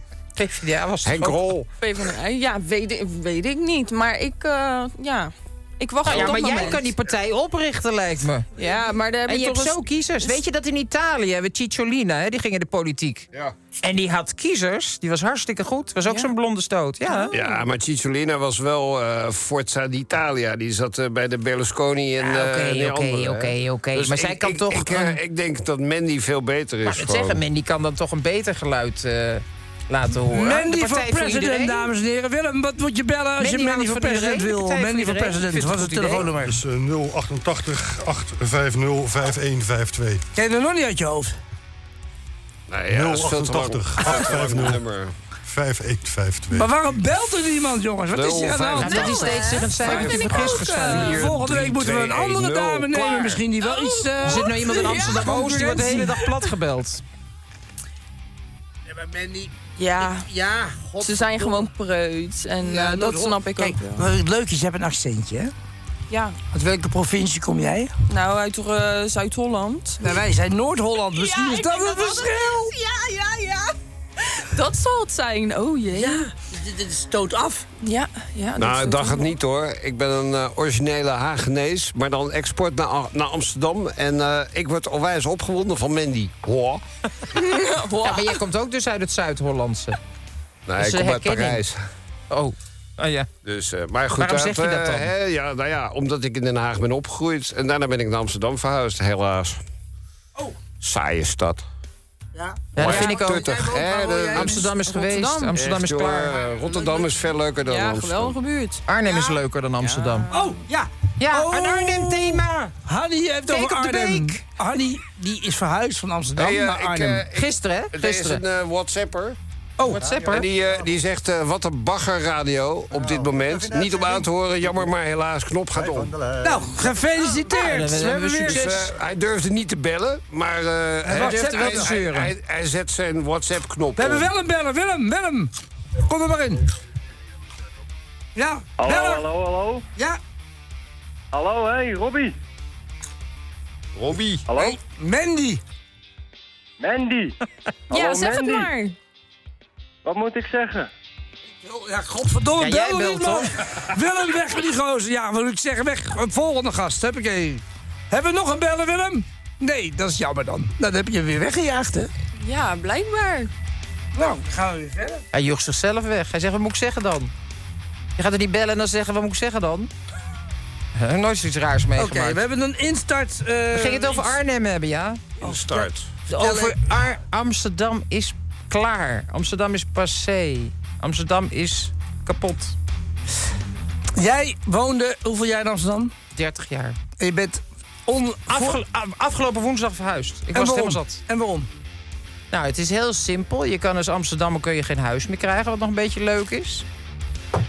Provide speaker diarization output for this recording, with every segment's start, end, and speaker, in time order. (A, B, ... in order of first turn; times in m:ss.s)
0:00.4-0:01.6 A
0:01.0-0:01.6 B
0:01.8-0:06.9 C
0:06.0-0:08.5 A
0:08.6-0:10.4 C
0:09.2-0:13.3 A
0:13.8-0:17.3 A
0:16.0-0:16.3 C
0:17.1-0:17.6 C
0:17.3-0:27.4 B
0:22.2-0:25.2 A
0:26.8-0:31.9 A
0:30.3-0:36.6 D
0:33.4-0:36.3 A
0:36.2-0:40.2 E
0:40.4-0:41.3 D
0:42.7-0:45.1 B
0:42.9-0:44.8 E
0:45.4-0:47.0 E
0:46.5-0:49.2 D
0:48.1-0:53.4 B
0:48.8-0:51.3 A
0:49.0-0:50.5 C
0:49.8-0:56.2 D
0:53.6-0:55.5 C
0:54.2-0:57.0 A
0:58.9-1:01.7 D
0:59.8-1:00.3 C
1:01.0-1:04.1 C
1:02.6-1:05.5 D
1:06.1-1:06.4 C
1:06.5-1:07.9 D
1:08.1-1:10.2 C
1:10.0-1:12.7 D
1:11.1-1:13.7 C
1:14.2-1:16.3 C
1:15.9-1:17.7 D
1:17.8-1:19.3 C
1:18.6-1:26.8 B
1:27.3-1:28.4 C
1:28.0-1:30.0 A
1:30.7-1:31.8 B
1:30.8-1:31.6 A
1:32.3-1:33.3 A
1:33.4-1:39.6 B
1:34.2-1:35.1 A
1:40.8-1:41.6 B
1:42.3-1:44.7 D
1:42.7-1:43.5 A
1:42.8-1:44.7 B
1:44.3-1:46.4 A
1:44.8-1:45.5 C
1:45.5-1:48.3 B
1:46.6-1:47.1 D
1:47.6-1:48.8 C
1:48.9-1:50.3 A
1:50.0-1:50.5 C
1:50.3-1:57.2 D
1:51.2-1:52.7 A
1:53.5-1:54.4 A
1:56.4-1:59.4 B
1:57.3-1:58.4 A
1:59.8-2:00.2 D
1:59.8-2:00.5 A
2:00.2-2:06.2 B
2:06.4-2:08.8 D
2:07.5-2:08.9 A
2:08.4-2:14.3 B
2:11.0-2:12.0 D
2:11.1-2:12.3 A
2:14.0-2:16.6 D
2:18.4-2:19.2 D
2:18.8-2:19.8 F
2:21.3-2:22.3 F
2:24.0-2:24.4 B
2:24.5-2:24.8 F
2:24.6-2:25.6 D
2:26.8-2:27.3 F
2:27.9-2:28.7 F
2:27.9-2:29.0 C
2:30.0-2:30.9 F
2:31.6-2:42.1 D
2:32.6-2:33.6 A
2:42.4-2:43.5 C
2:44.1-2:45.2 D
2:45.3-2:47.3 A
2:48.2-2:49.9 A
2:51.0-2:52.4 A
2:52.0-2:54.4 D
2:53.7-2:55.2 A
2:55.4-2:56.1 B
2:55.4-2:56.8 D
2:56.3-3:02.8 A
3:04.2-3:06.1 D
3:06.3-3:07.0 A
3:07.2-3:08.8 D
3:08.5-3:11.2 A
3:10.5-3:11.7 D
3:12.5-3:16.8 A